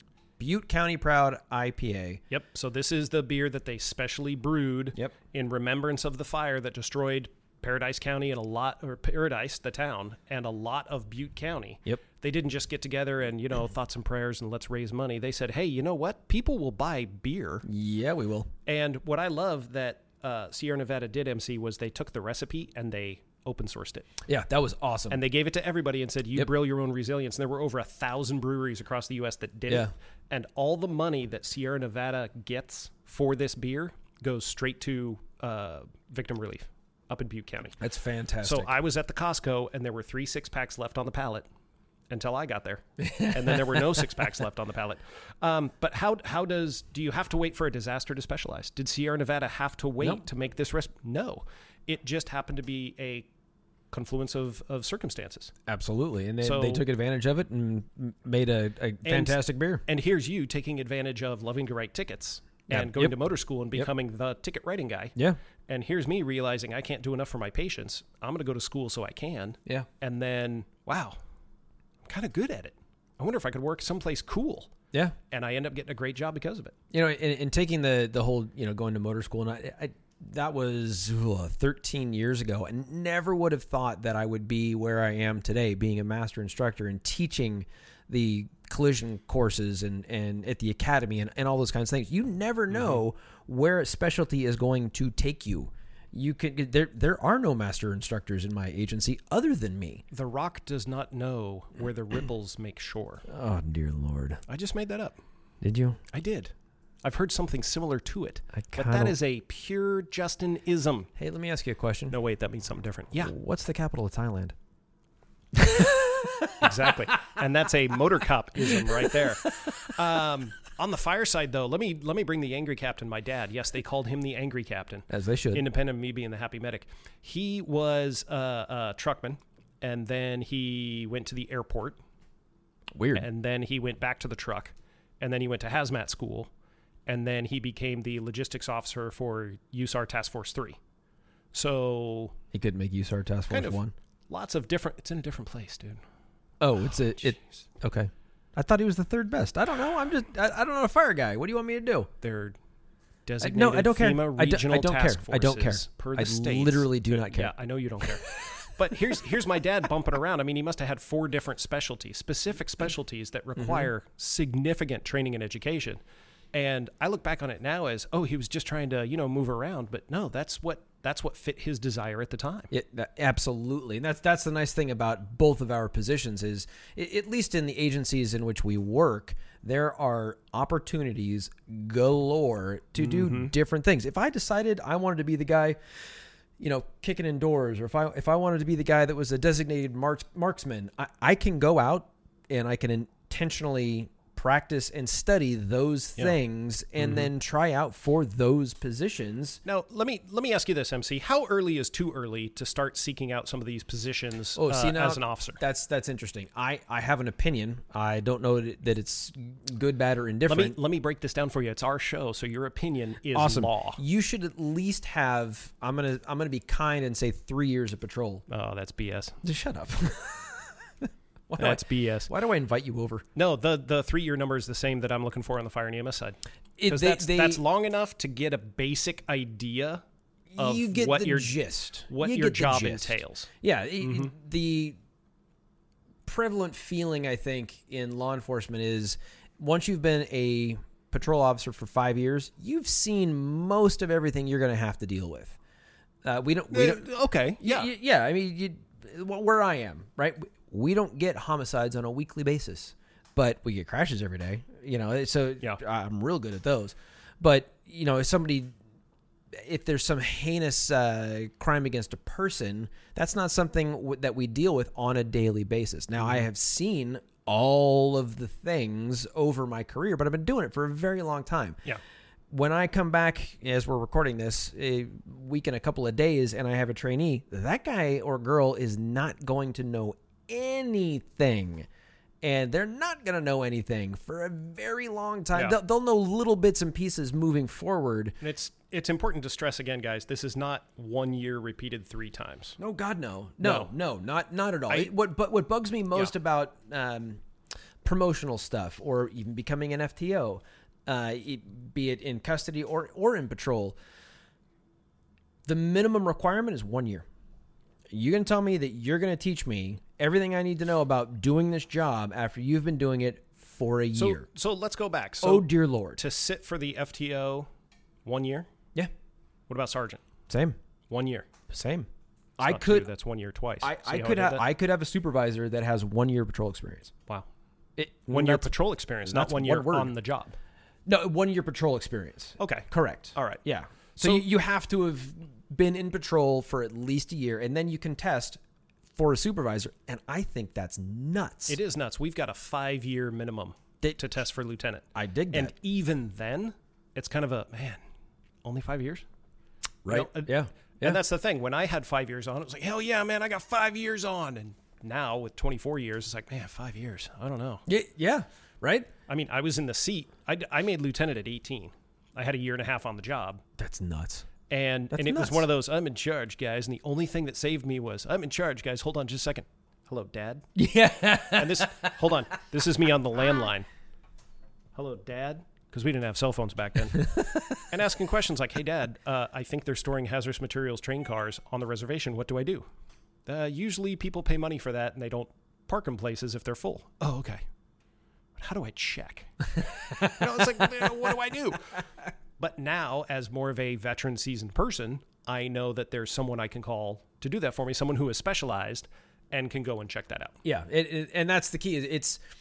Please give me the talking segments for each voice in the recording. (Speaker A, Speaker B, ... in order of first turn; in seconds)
Speaker A: 0.4-2.2, 17.6-18.5, 24.3-25.2, 37.8-38.8, 43.0-44.0, 55.7-59.8, 62.7-63.2, 76.9-100.0, 103.3-104.4, 105.6-106.0, 108.5-109.2, 111.2-112.2, 113.2-114.5, 115.6-116.6, 125.1-125.6, 132.9-133.3, 142.5-143.9, 146.6-152.1, 153.4-157.5, 158.3-158.7, 163.6-163.9, 172.7-185.8, 186.6-199.6, 204.6-210.8, 213.3-218.4, 219.4-223.2, 226.8-227.6, 230.5-235.0, 236.3-245.6, 246.2-247.1, 247.6-258.7, 259.5-271.8, 272.5-281.9, 282.4-288.4, 292.8-297.4, 298.0-304.0, 305.7-307.3, 308.1-314.5, 315.4-316.2, 320.5-320.8, 321.7-323.1, 323.8-327.1, 328.0-328.7, 329.2-330.1, 331.1-338.6, 339.1-341.8, 345.1-345.7, 350.1-351.2, 357.9-359.1, 363.8-364.5, 365.1-365.6, 370.8-372.2, 377.2-377.8, 400.6-402.4
Speaker B: 2.3-17.6, 18.7-24.1, 25.1-37.8, 38.4-41.5, 42.1-53.3, 53.9-55.5, 56.4-56.9, 59.0-65.2, 65.7-71.2, 72.0-74.7, 75.3-76.8, 92.7-93.0, 100.1-103.2, 104.5-105.2, 106.1-111.1, 112.1-113.3, 116.6-132.0, 133.2-136.5, 137.1-140.8, 141.5-142.4, 143.5-146.0, 152.2-152.6, 153.3-166.0, 166.5-172.7, 183.0-183.5, 197.0-197.3, 199.7-205.6, 210.5-214.0, 218.5-219.4, 221.6-222.3, 223.3-230.0, 230.6-233.5, 234.0-234.3, 246.7-247.9, 266.2-266.5, 288.4-292.8, 293.6-293.9, 314.1-317.7, 318.2-318.7, 319.7-320.2, 321.1-321.5, 322.6-324.6, 328.3-330.6, 332.6-333.6, 334.2-334.5, 341.7-348.0, 348.6-349.2, 350.1-357.8, 359.3-363.6, 364.7-370.7, 371.5-373.9, 374.9-382.9, 383.5-387.6, 388.6-391.9, 392.6-400.6